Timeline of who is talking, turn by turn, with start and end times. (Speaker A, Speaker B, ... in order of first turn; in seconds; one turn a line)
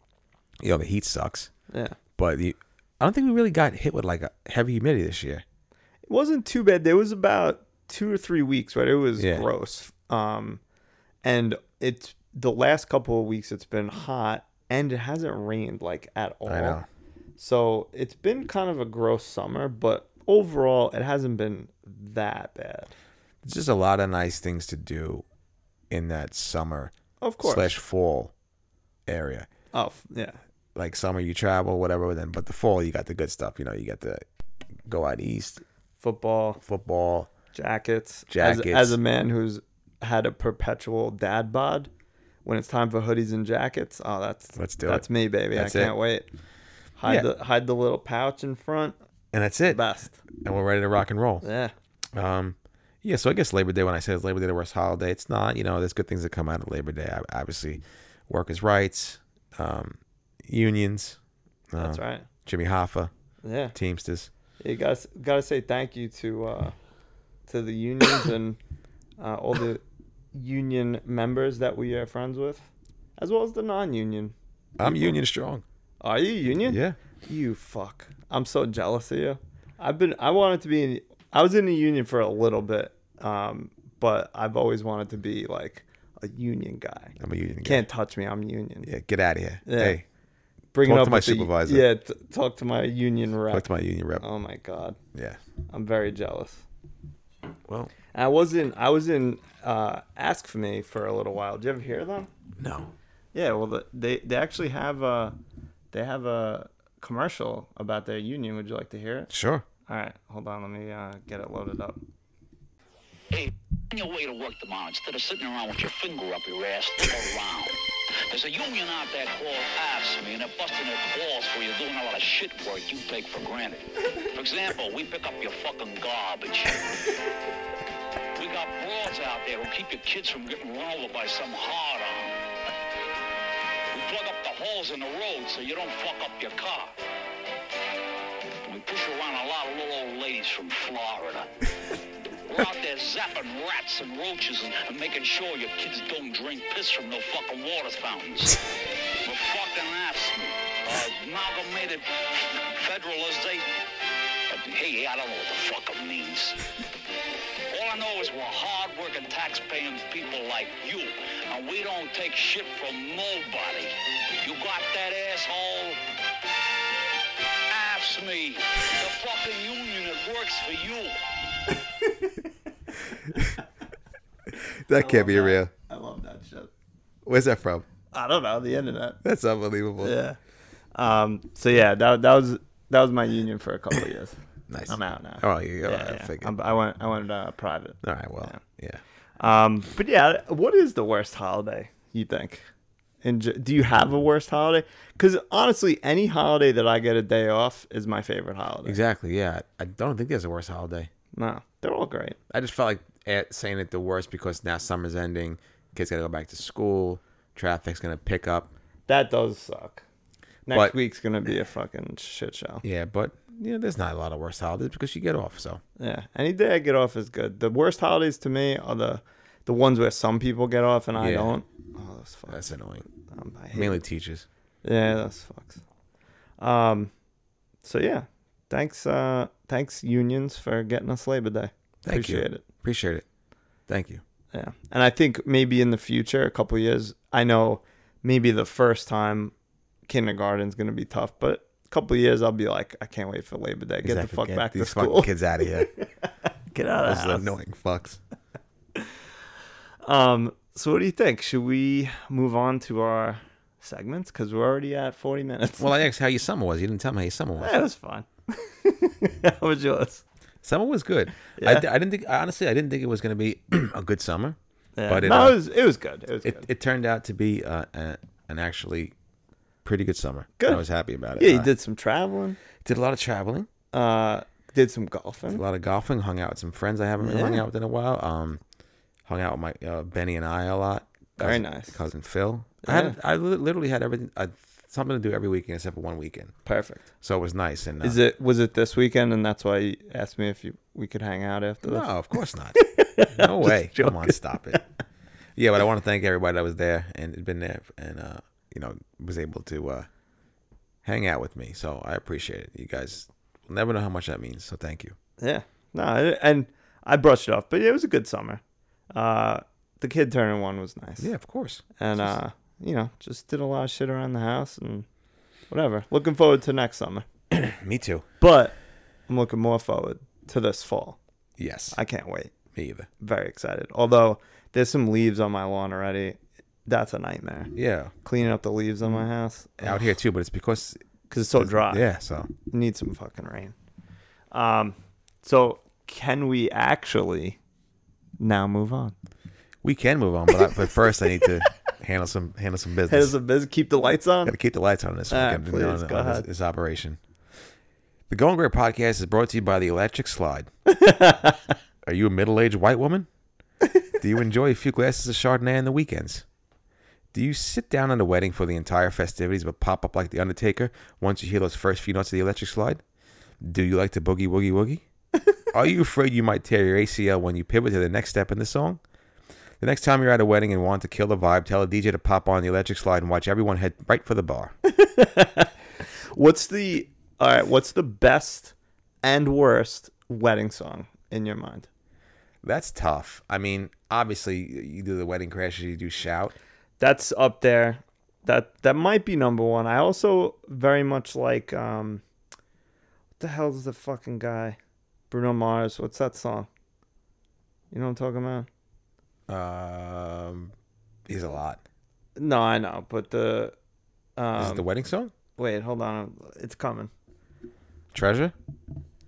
Speaker A: 0.6-1.5
Speaker B: 1.7-2.0
Speaker A: 2.2-5.4
Speaker B: 6.1-10.6
Speaker A: 9.2-9.5
Speaker B: 11.2-16.8
Speaker A: 16.4-16.9
Speaker B: 17.4-22.9
Speaker A: 23.4-25.2
Speaker A: 25.9-28.3
Speaker B: 27.2-27.7
Speaker A: 29.1-29.5
Speaker B: 29.7-30.4
Speaker A: 30.7-34.2
Speaker A: 34.9-35.6
Speaker B: 36.0-36.6
Speaker A: 36.6-37.3
Speaker B: 37.5-41.9
Speaker A: 38.3-39.0
Speaker B: 42.5-46.3
Speaker A: 44.5-45.9
Speaker B: 47.0-49.0
Speaker A: 49.3-49.8
Speaker B: 49.7-50.2
Speaker A: 50.4-51.5
Speaker B: 51.4-51.7
Speaker A: 52.1-61.2
Speaker A: 61.7-63.1
Speaker B: 61.8-62.3
Speaker B: 63.4-63.7
Speaker A: 63.7-64.3
Speaker B: 64.6-66.7
Speaker B: 67.5-68.6
Speaker B: 69.2-69.8
Speaker B: 70.3-75.2
Speaker A: 74.8-75.6
Speaker B: 76.0-88.9
Speaker A: 76.6-77.0
Speaker A: 87.2-87.9
Speaker A: 88.8-90.0
Speaker B: 89.6-90.0
Speaker B: 90.7-93.7
Speaker A: 90.8-91.9
Speaker A: 93.5-94.2
Speaker B: 94.2-95.0
Speaker A: 95.1-95.4
Speaker B: 95.7-96.6
Speaker A: 97.7-97.9
Speaker B: 98.1-102.3
Speaker A: 102.6-102.9
Speaker B: 103.3-105.4
Speaker B: 105.9-109.3
Speaker A: 109.3-109.6
Speaker B: 109.9-112.0
Speaker C: 113.3-126.8
Speaker C: 128.3-132.3
Speaker C: 133.9-136.9
Speaker C: 138.6-141.5
Speaker C: 142.4-148.6
Speaker C: 149.2-153.7
Speaker C: 154.5-156.6
Speaker C: 157.7-166.0
Speaker C: 167.7-171.2
Speaker A: 174.9-175.7
Speaker B: 174.9-176.7
Speaker A: 177.3-177.9
Speaker B: 178.1-179.2
Speaker A: 179.2-180.2
Speaker B: 180.0-180.4
Speaker B: 180.9-188.6
Speaker A: 184.7-186.5
Speaker A: 188.0-189.0
Speaker B: 189.4-192.6
Speaker B: 193.2-199.0
Speaker A: 198.8-201.1
Speaker B: 201.3-202.4
Speaker A: 202.5-208.7
Speaker B: 209.1-210.0
Speaker B: 210.7-212.8
Speaker A: 210.7-210.9
Speaker A: 212.8-215.8
Speaker B: 216.0-222.6
Speaker A: 221.2-221.6
Speaker A: 222.5-223.1
Speaker B: 223.3-224.0
Speaker A: 223.7-224.4
Speaker B: 224.8-225.8
Speaker B: 226.6-227.1
Speaker B: 227.8-232.6
Speaker A: 232.0-233.2
Speaker A: 233.9-234.2
Speaker B: 234.5-239.5
Speaker B: 240.1-247.6
Speaker A: 244.0-245.9
Speaker A: 247.0-248.2
Speaker B: 250.0-255.9
Speaker A: 255.8-257.7
Speaker B: 257.6-260.2
Speaker A: 260.6-265.6
Speaker B: 261.6-261.9
Speaker B: 264.9-266.7
Speaker A: 266.4-269.1
Speaker A: 269.8-271.7
Speaker B: 271.4-272.6
Speaker A: 272.8-273.7
Speaker B: 273.9-275.6
Speaker A: 275.5-278.6
Speaker B: 277.2-277.6
Speaker A: 279.3-286.5
Speaker B: 281.4-282.0
Speaker B: 282.8-283.2
Speaker B: 286.7-287.0
Speaker A: 287.2-288.2
Speaker B: 288.0-292.1
Speaker A: 291.8-294.8
Speaker B: 292.7-294.8
Speaker A: 295.6-300.1
Speaker A: 301.0-305.2
Speaker B: 305.4-308.6
Speaker B: 309.1-311.3
Speaker A: 311.2-312.3
Speaker B: 312.0-315.1
Speaker B: 315.7-317.3
Speaker A: 317.5-318.3
Speaker B: 318.4-318.7
Speaker B: 319.3-321.2
Speaker A: 321.6-322.0
Speaker B: 321.9-322.5
Speaker A: 322.7-323.1
Speaker B: 323.2-330.1
Speaker A: 327.7-328.1
Speaker A: 329.8-331.0
Speaker B: 331.3-332.1
Speaker A: 331.6-332.5
Speaker B: 332.7-333.7
Speaker B: 334.5-337.6
Speaker B: 338.4-339.1
Speaker A: 339.8-343.3
Speaker B: 343.1-344.5
Speaker A: 344.4-347.2
Speaker B: 345.3-346.4
Speaker A: 348.3-350.7
Speaker B: 350.9-351.6
Speaker A: 352.0-353.3
Speaker A: 354.2-356.4
Speaker A: 357.3-363.0
Speaker A: 363.6-365.0
Speaker A: 365.7-369.0
Speaker A: 369.8-374.7
Speaker B: 374.8-375.7
Speaker B: 376.3-381.9
Speaker A: 382.6-386.6
Speaker B: 387.0-392.2
Speaker B: 393.4-394.8
Speaker B: 395.3-396.7
Speaker B: 397.9-398.7
Speaker A: 399.5-400.7
Speaker A: 401.3-401.8
Speaker B: 402.4-403.7
Speaker B: 404.4-404.8
Speaker A: 404.6-405.3
Speaker B: 405.6-407.1
Speaker A: 408.1-408.5